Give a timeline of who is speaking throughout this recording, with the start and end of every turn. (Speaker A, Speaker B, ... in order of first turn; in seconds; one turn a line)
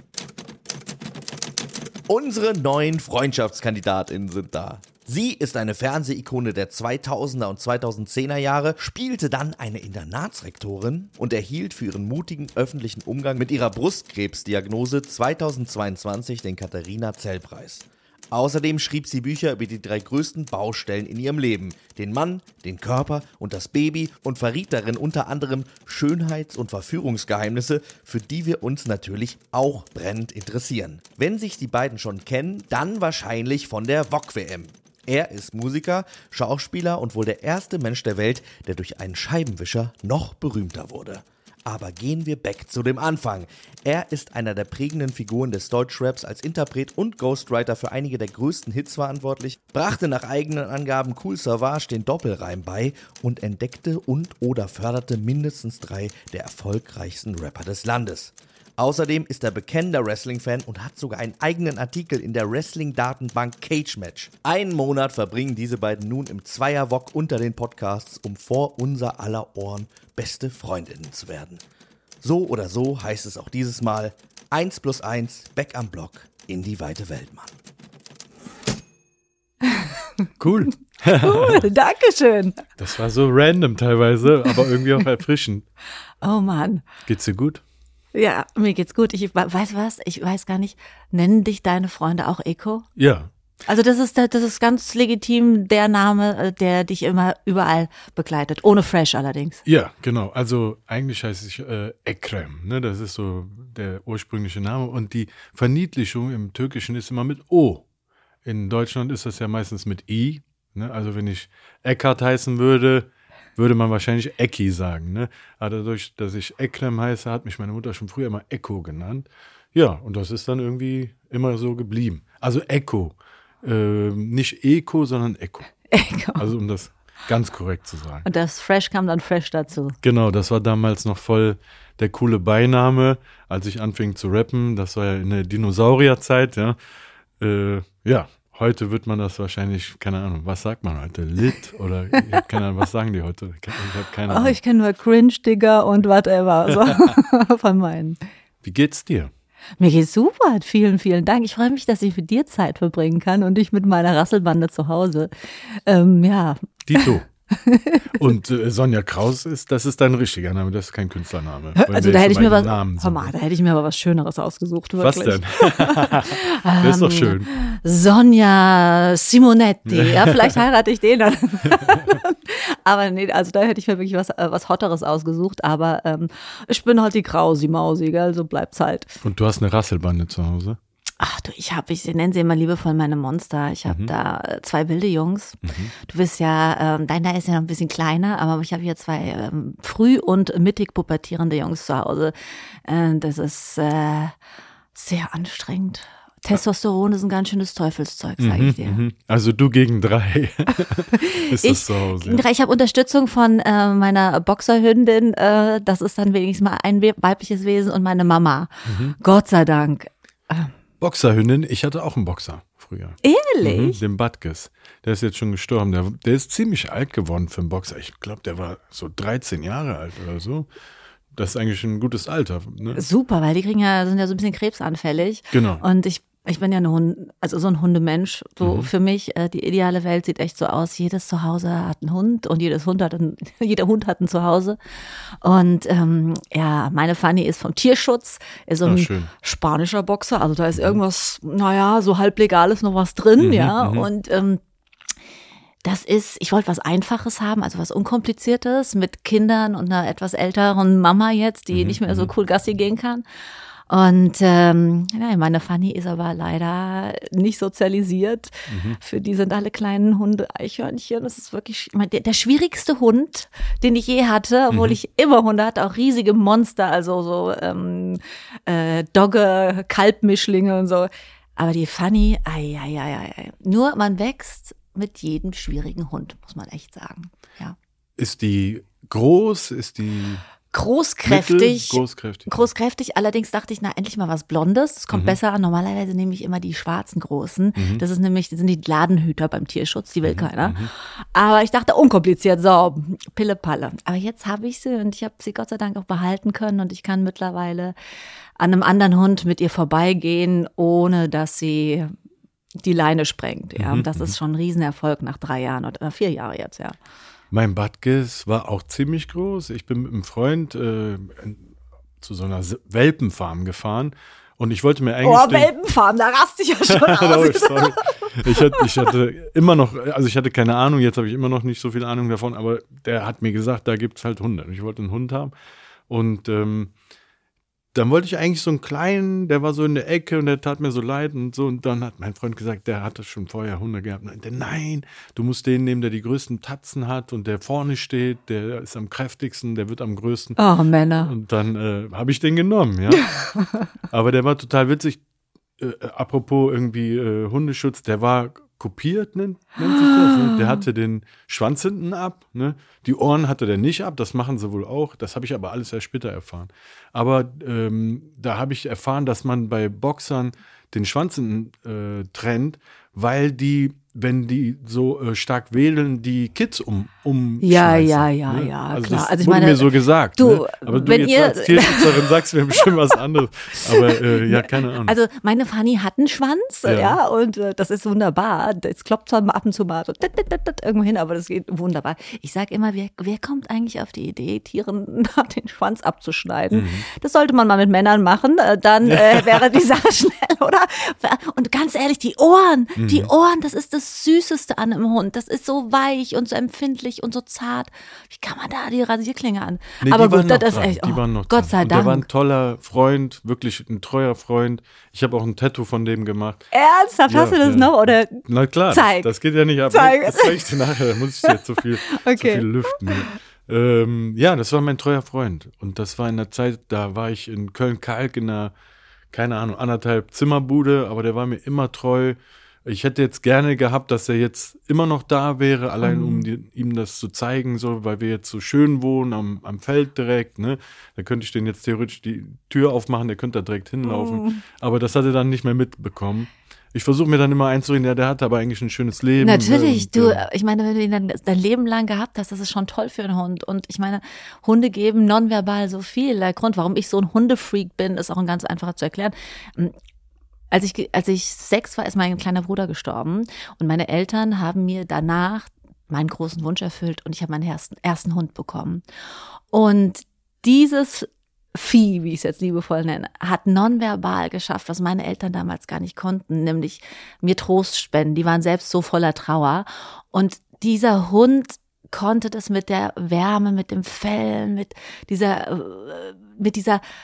Speaker A: 2.1-71.6
Speaker A: 72.2-77.5
Speaker B: 79.7-79.9
Speaker C: 80.4-81.7
Speaker B: 81.2-82.6
Speaker C: 82.8-85.7
Speaker B: 86.2-86.9
Speaker C: 87.1-87.6
Speaker B: 88.1-92.8
Speaker C: 93.0-93.3
Speaker B: 93.7-99.6
Speaker C: 99.7-107.8
Speaker C: 108.5-125.7
Speaker B: 125.9-126.5
Speaker C: 126.4-128.3
Speaker B: 128.2-130.0
Speaker C: 130.0-136.8
Speaker C: 137.4-144.6
Speaker B: 144.3-148.2
Speaker C: 146.7-147.2
Speaker C: 148.6-149.3
Speaker B: 149.8-158.2
Speaker C: 156.9-157.3
Speaker C: 158.2-163.3
Speaker B: 161.8-179.1
Speaker C: 165.0-167.5
Speaker C: 169.9-170.6
Speaker C: 171.8-172.0
Speaker C: 179.2-180.8
Speaker B: 181.2-194.4
Speaker C: 183.9-184.1
Speaker C: 185.6-185.9
Speaker B: 194.9-199.0
Speaker C: 198.4-202.4
Speaker B: 201.1-210.7
Speaker C: 208.9-209.2
Speaker C: 211.0-220.7
Speaker B: 213.2-214.0
Speaker C: 221.3-223.0
Speaker B: 222.9-234.8
Speaker C: 225.5-225.8
Speaker C: 228.6-228.9
Speaker B: 235.4-244.6
Speaker C: 238.8-239.3
Speaker C: 243.4-244.1
Speaker B: 245.8-253.2
Speaker C: 251.7-252.3
Speaker B: 253.9-277.8
Speaker C: 258.7-259.0
Speaker C: 264.7-265.0
Speaker C: 278.2-280.4
Speaker B: 280.7-297.9
Speaker C: 281.3-282.7
Speaker C: 285.1-285.4
Speaker C: 287.8-288.0
Speaker C: 290.3-290.9
Speaker B: 298.6-302.1
Speaker B: 302.8-307.0
Speaker C: 303.8-304.4
Speaker C: 307.5-311.6
Speaker C: 312.2-315.7
Speaker B: 315.2-318.8
Speaker C: 316.9-325.5
Speaker C: 326.1-326.9
Speaker C: 327.9-340.6
Speaker B: 340.6-341.3
Speaker C: 341.2-343.3
Speaker B: 343.1-343.9
Speaker C: 344.1-345.2
Speaker C: 345.8-375.2
Speaker B: 349.8-350.8
Speaker B: 367.6-372.3
Speaker B: 373.9-402.3
Speaker C: 376.9-377.2
Speaker C: 386.7-387.1
Speaker C: 389.1-389.7
Speaker C: 393.0-393.3
Speaker C: 400.0-406.7
Speaker B: 406.7-409.3
Speaker C: 407.3-418.7
Speaker B: 409.9-410.6
Speaker B: 412.1-413.3
Speaker C: 419.3-440.4
Speaker B: 426.0-426.5
Speaker B: 434.0-434.6
Speaker B: 439.4-449.9
Speaker B: 450.7-459.0
Speaker B: 459.7-477.0